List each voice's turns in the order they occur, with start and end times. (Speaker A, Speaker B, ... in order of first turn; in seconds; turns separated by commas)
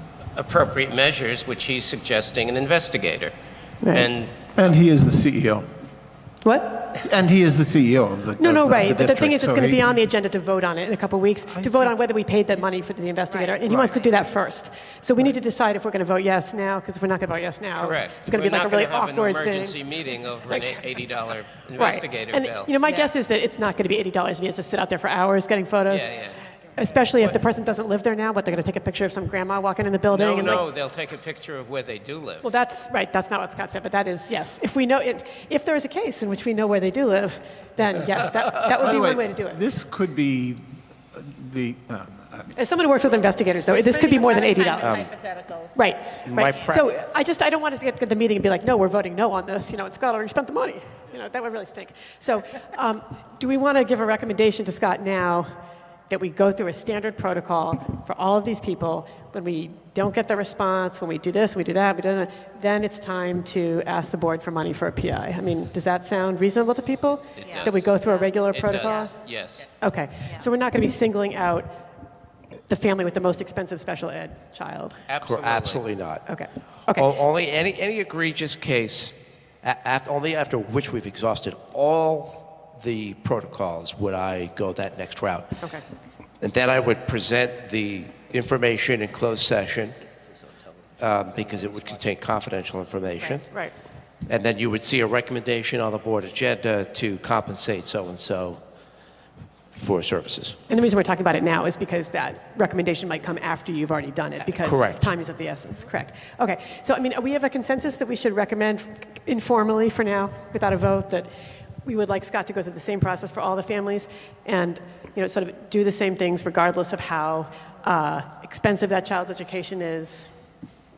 Speaker A: 0.3-3.3, Speaker B: 3.8-4.1, Speaker A: 3.9-4.4, Speaker C: 4.5-5.7, Speaker B: 6.4-6.9, Speaker C: 6.9-10.0, Speaker B: 8.4-19.8, Speaker C: 11.5-11.9, Speaker D: 13.3-14.2, Speaker C: 13.7-14.0, Speaker A: 17.8-22.7, Speaker B: 20.5-20.8, Speaker B: 21.8-26.1, Speaker D: 22.8-23.1, Speaker A: 25.9-26.4, Speaker B: 26.7-30.7, Speaker A: 30.1-32.5, Speaker B: 32.4-39.6, Speaker C: 38.8-42.5, Speaker B: 42.6-45.1, Speaker D: 43.7-45.9, Speaker E: 44.8-45.1, Speaker B: 45.8-55.5, Speaker E: 46.2-46.9, Speaker B: 56.1-69.2, Speaker A: 67.3-68.0, Speaker D: 67.4-69.1, Speaker A: 68.5-69.7, Speaker B: 69.8-71.7, Speaker B: 72.7-75.0, Speaker A: 75.1-75.8, Speaker E: 75.2-85.6, Speaker B: 76.2-77.1, Speaker E: 86.4-90.0, Speaker E: 91.0-93.6, Speaker B: 93.4-93.7, Speaker E: 94.2-98.6, Speaker E: 99.8-100.6, Speaker B: 100.7-111.3, Speaker E: 104.4-105.1, Speaker B: 111.8-120.3